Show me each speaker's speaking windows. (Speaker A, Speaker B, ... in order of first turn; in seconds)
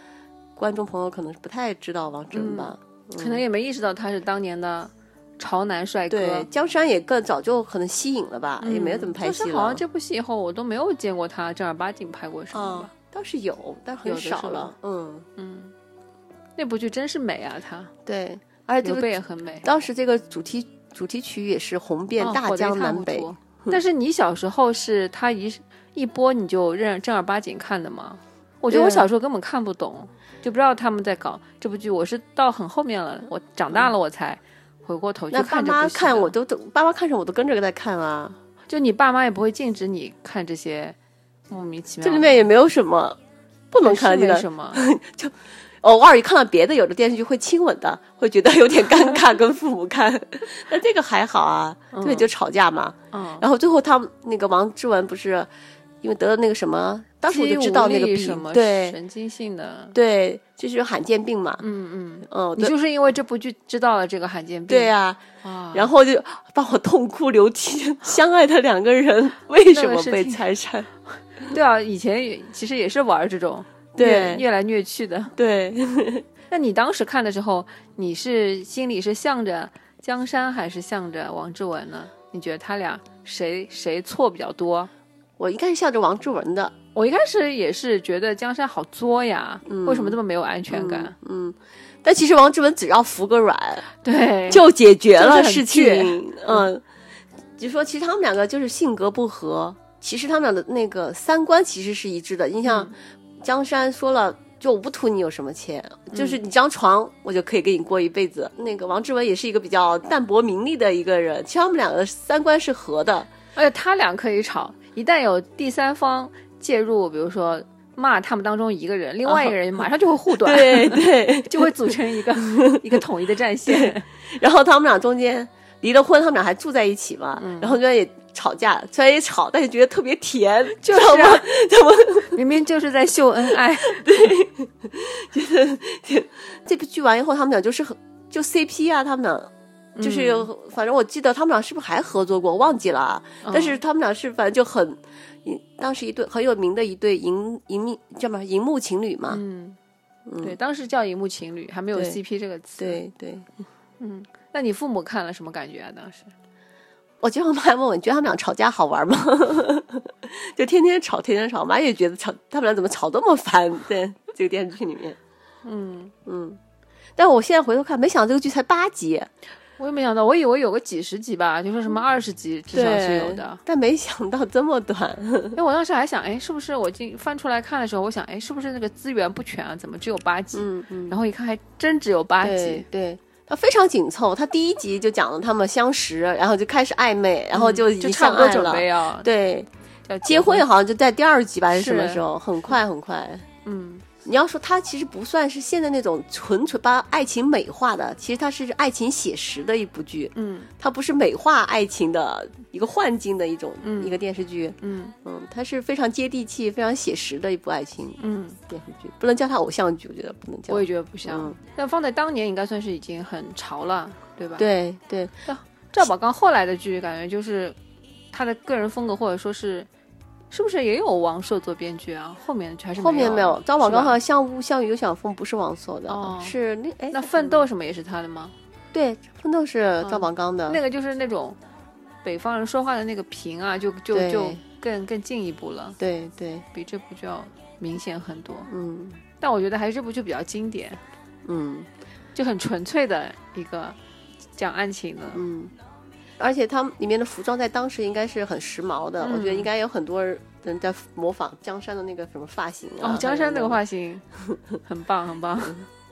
Speaker A: 0.6-3.4, 6.1-9.8, 12.5-15.3, 18.1-19.1, 19.6-23.8, 28.7-29.1, 35.3-38.4, 42.0-43.2, 43.7-55.5, 56.0-59.0, 59.9-61.6, 62.3-62.8, 64.7-70.9, 74.0-74.4, 75.4-76.2, 85.4-86.7, 89.7-90.2, 90.7-93.9, 94.5-96.8, 97.6-113.3, 119.2-119.6, 120.3-121.7, 122.4-123.0, 123.7-132.4, 133.8-139.5, 140.0-149.4, 150.3-150.6, 152.8-153.5, 157.2-165.2, 166.3-166.6, 167.2-169.3, 172.7-175.6, 180.5-181.2, 182.4-189.7, 190.2-193.4, 194.2-208.2, 208.7-211.6, 214.6-215.3, 223.0-227.6, 228.9-230.8, 234.1-234.6, 236.0-236.7, 238.7-239.2, 241.4-241.9, 245.3-245.7, 246.4-253.8
Speaker B: 2.3-6.5, 8.6-12.9, 14.0-14.7, 15.4-15.7, 16.6-17.9, 18.8-19.7, 22.2-36.3, 38.7-41.0, 41.5-42.5, 43.8-44.8, 51.9-52.3, 53.1-53.5, 57.3-60.0, 61.6-64.9, 65.4-65.9, 69.7-70.5, 71.5-75.3, 76.5-84.9, 87.0-91.2, 94.0-96.7, 102.7-102.9, 106.1-106.4, 113.6-124.1, 127.4-127.8, 130.8-131.5, 132.3-134.3, 140.0-140.5, 143.4-143.8, 149.3-149.8, 150.4-153.0, 154.0-156.3, 165.7-166.1, 169.8-173.6, 175.6-182.9, 187.5-189.3, 190.1-190.7, 191.7-192.2, 193.7-194.1, 200.3-200.7, 203.8-204.2, 204.8-205.2, 208.2-208.6, 210.7-214.7, 215.5-217.8, 218.3-219.9, 220.5-224.2, 226.1-226.6, 227.1-228.5, 230.0-231.6, 232.2-236.0, 236.7-238.7, 239.4-241.0, 242.3-244.0, 244.6-245.4, 249.2-249.7, 253.0-254.2, 254.8-255.9